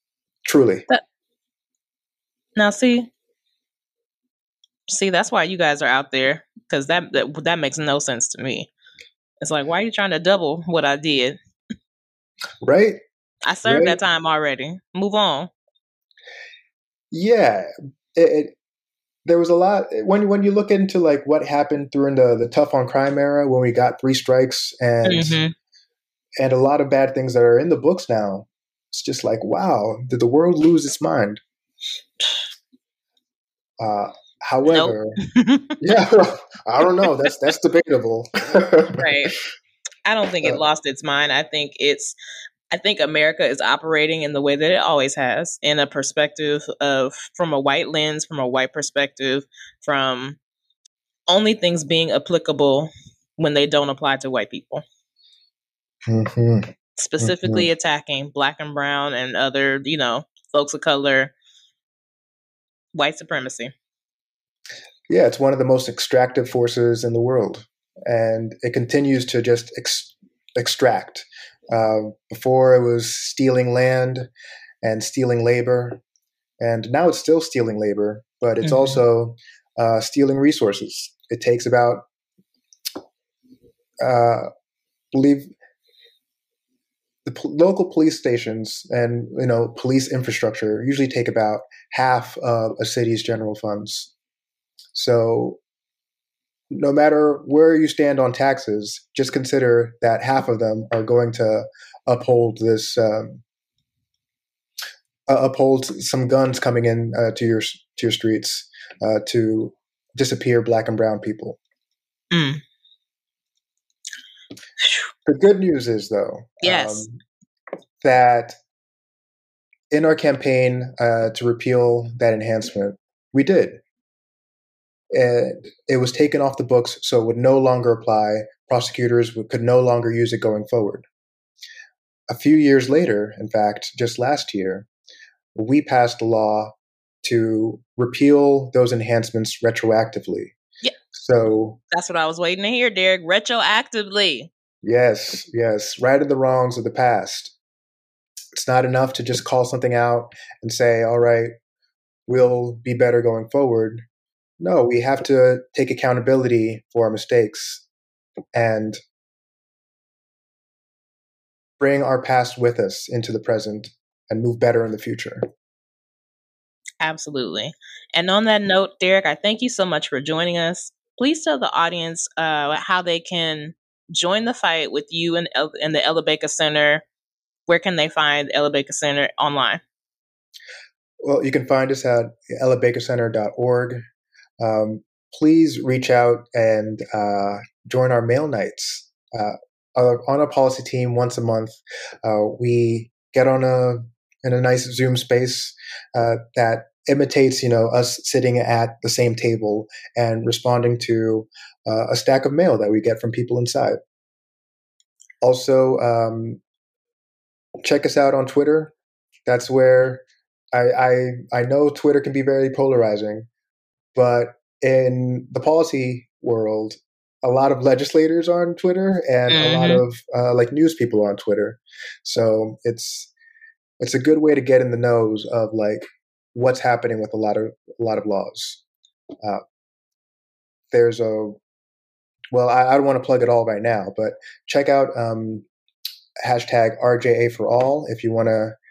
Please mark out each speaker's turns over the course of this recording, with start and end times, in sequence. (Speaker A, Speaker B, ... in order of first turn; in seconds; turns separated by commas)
Speaker A: 0.5-0.9, Speaker B: 2.6-3.1, Speaker B: 4.9-8.7, Speaker B: 9.4-11.4, Speaker A: 12.6-13.0, Speaker B: 13.4-15.5, Speaker A: 13.7-14.0, Speaker A: 17.1-18.6, Speaker A: 19.2-25.4, Speaker B: 25.0-25.5, Speaker A: 26.4-31.4, Speaker A: 33.8-35.2, Speaker B: 34.7-35.8, Speaker A: 35.8-39.1, Speaker B: 39.0-39.4, Speaker B: 40.0-42.2, Speaker B: 42.7-50.4, Speaker B: 51.3-54.8, Speaker A: 56.1-56.7, Speaker B: 57.0-61.3, Speaker A: 57.2-57.7, Speaker B: 62.9-63.7, Speaker A: 65.1-74.3, Speaker A: 74.8-76.0, Speaker A: 76.6-82.0, Speaker B: 78.6-79.0, Speaker A: 84.0-84.5, Speaker A: 85.1-85.5, Speaker A: 87.2-94.1, Speaker A: 94.9-95.6, Speaker A: 96.7-103.4, Speaker A: 105.3-111.6, Speaker B: 112.3-112.6, Speaker A: 115.2-117.2, Speaker B: 116.6-117.0, Speaker A: 118.0-118.5, Speaker A: 119.9-123.8, Speaker A: 125.1-131.0, Speaker A: 132.3-134.9, Speaker A: 135.6-140.6, Speaker A: 141.1-141.8, Speaker B: 141.9-144.5, Speaker A: 144.8-147.6, Speaker A: 148.5-151.5, Speaker A: 152.3-154.0, Speaker A: 154.6-157.8, Speaker A: 158.5-159.0, Speaker A: 161.8-165.5, Speaker B: 167.0-177.0, Speaker B: 177.7-179.8, Speaker A: 181.2-184.0, Speaker A: 184.6-204.0, Speaker A: 205.4-206.6, Speaker A: 207.8-208.9, Speaker A: 209.5-210.2, Speaker A: 210.7-213.5, Speaker A: 214.1-223.3, Speaker B: 219.5-220.0, Speaker A: 224.0-228.8, Speaker A: 230.9-231.6, Speaker A: 232.5-235.7, Speaker A: 236.4-238.8